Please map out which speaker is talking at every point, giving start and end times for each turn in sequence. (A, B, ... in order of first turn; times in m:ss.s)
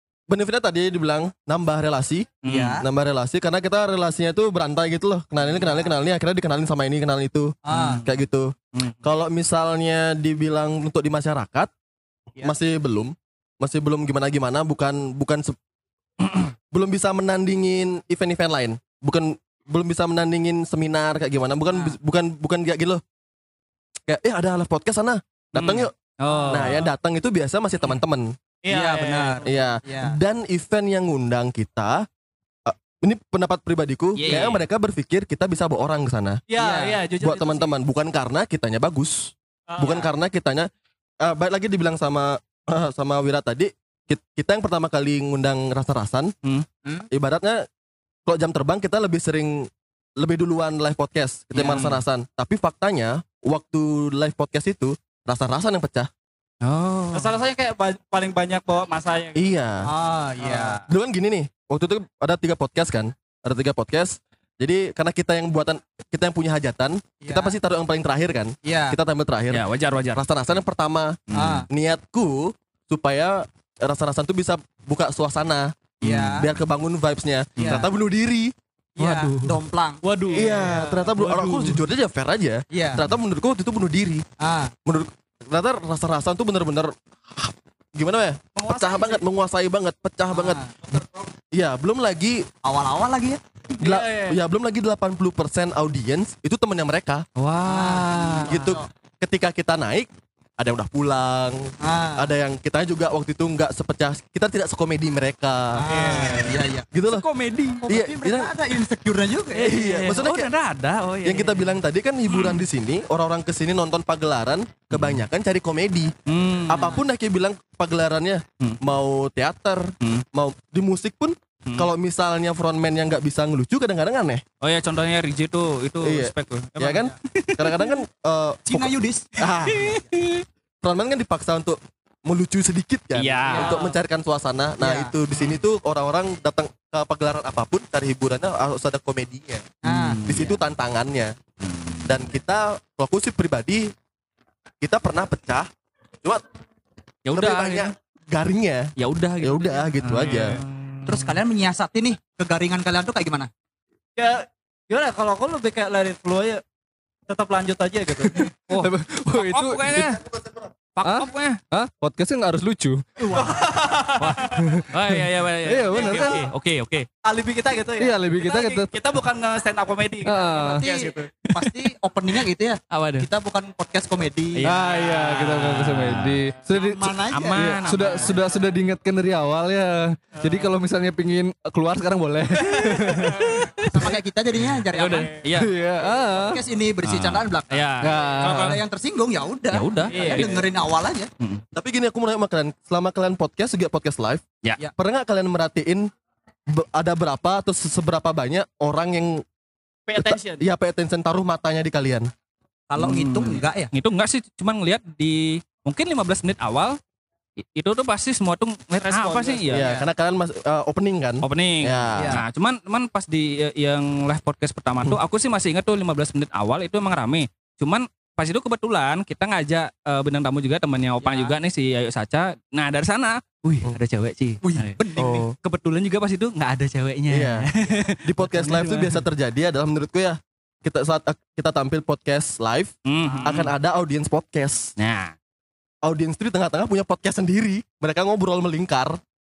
0:00.3-0:11.7 A
0:02.4-0:02.8 B
0:02.4-0:02.8 C
0:05.5-0:05.8 C
0:07.7-0:08.0 C
0:07.7-0:08.1 B
0:12.4-0:15.6 A
0:16.7-0:23.0 A
0:24.1-0:25.9 A
0:25.5-0:26.9 B
0:26.5-0:28.3 A
0:28.6-0:29.5 D
0:28.7-0:30.2 C
0:29.4-0:32.1 A
0:32.7-0:36.4 A
0:34.2-0:34.6 B
0:36.5-0:37.7 D
0:36.6-0:37.0 C
0:37.2-0:40.7 A
0:39.7-0:40.1 D
0:41.2-0:46.4 A
0:47.1-0:47.6 A
0:48.3-0:56.1 A
0:51.6-0:52.0 B
0:56.6-0:57.4 B
0:57.1-0:59.5 D
0:59.4-0:59.9 A
0:59.8-1:00.8 C
1:00.9-1:18.5 A
1:07.2-1:07.6 C
1:08.6-1:09.0 C
1:09.5-1:10.2 B
1:11.3-1:11.7 B
1:11.3-1:11.7 C
1:16.0-1:16.5 C
1:16.0-1:16.3 B
1:17.6-1:17.8 B
1:17.6-1:17.9 C
1:19.0-1:20.0 C
1:19.0-1:21.8 B
1:20.3-1:21.0 D
1:20.3-1:24.2 A
1:22.7-1:23.0 C
1:24.4-1:24.7 C
1:24.9-1:30.6 A
1:28.6-1:29.2 D
1:30.3-1:30.7 C
1:31.5-1:32.5 A
1:32.6-1:33.4 C
1:33.8-1:34.4 D
1:33.8-1:37.2 A
1:37.4-1:38.5 B
1:37.6-1:38.9 C
1:38.5-1:45.8 A
1:41.8-1:42.3 C
1:45.8-1:46.8 C
1:45.9-1:46.6 D
1:46.9-1:47.2 A
1:47.1-1:47.8 B
1:47.8-1:49.7 C
1:47.9-1:48.5 A
1:49.6-1:52.6 B
1:49.6-1:50.5 A
1:51.2-1:56.1 A
1:54.9-1:55.2 B
1:56.3-1:57.0 B
1:56.7-2:04.4 A
2:04.6-2:08.0 B
2:06.0-2:10.0 A
2:08.7-2:10.1 C
2:09.7-2:10.4 B
2:10.8-2:19.7 A
2:13.2-2:13.8 B
2:13.6-2:14.0 D
2:14.8-2:15.1 C
2:19.8-2:20.2 C
2:19.9-2:20.6 B
2:20.2-2:21.4 A
2:21.6-2:22.3 B
2:22.1-2:23.9 A
2:24.8-2:25.7 A
2:27.3-2:27.9 B
2:27.3-2:30.6 A
2:29.0-2:31.4 B
2:31.0-2:33.5 C
2:34.2-2:36.6 D
2:37.3-2:38.5 D
2:38.3-2:40.2 E
2:38.7-2:40.2 B
2:41.0-2:41.6 B
2:41.0-2:43.0 E
2:43.2-2:43.7 C
2:43.3-2:44.7 D
2:44.2-2:47.1 B
2:44.5-2:46.4 E
2:45.9-2:46.4 D
2:47.2-2:51.3 D
2:48.0-2:48.9 E
2:50.2-2:50.9 E
2:50.5-2:54.7 C
2:51.5-2:51.9 B
2:52.9-2:53.3 B
2:54.6-2:56.4 B
2:54.6-3:03.7 E
2:55.2-2:55.4 D
2:56.7-2:58.0 C
2:57.3-2:58.4 B
2:58.1-2:58.6 D
3:00.4-3:00.7 D
3:02.6-3:03.7 D
3:03.8-3:05.3 C
3:04.7-3:05.7 B
3:05.5-3:06.6 E
3:06.2-3:11.3 C
3:07.0-3:08.8 B
3:08.0-3:08.8 E
3:09.7-3:10.7 B
3:10.1-3:10.5 D
3:11.8-3:14.4 A
3:15.0-3:16.1 A
3:16.7-3:19.4 A
3:20.1-3:20.6 D
3:20.1-3:22.3 A
3:22.9-3:23.9 C
3:23.0-3:27.0 B
3:27.6-3:29.9 B
3:29.0-3:30.0 D
3:29.7-3:32.4 A
3:31.4-3:45.0 B
3:32.2-3:32.4 C
3:41.2-3:41.6 C
3:44.6-3:45.5 C
3:45.2-3:45.5 A
3:45.6-3:49.2 B
3:47.3-3:47.7 A
3:48.2-3:52.9 A
3:53.1-3:53.7 B
3:53.2-3:53.5 C
3:53.4-3:54.9 A
3:55.0-3:55.3 B
3:56.0-3:59.2 A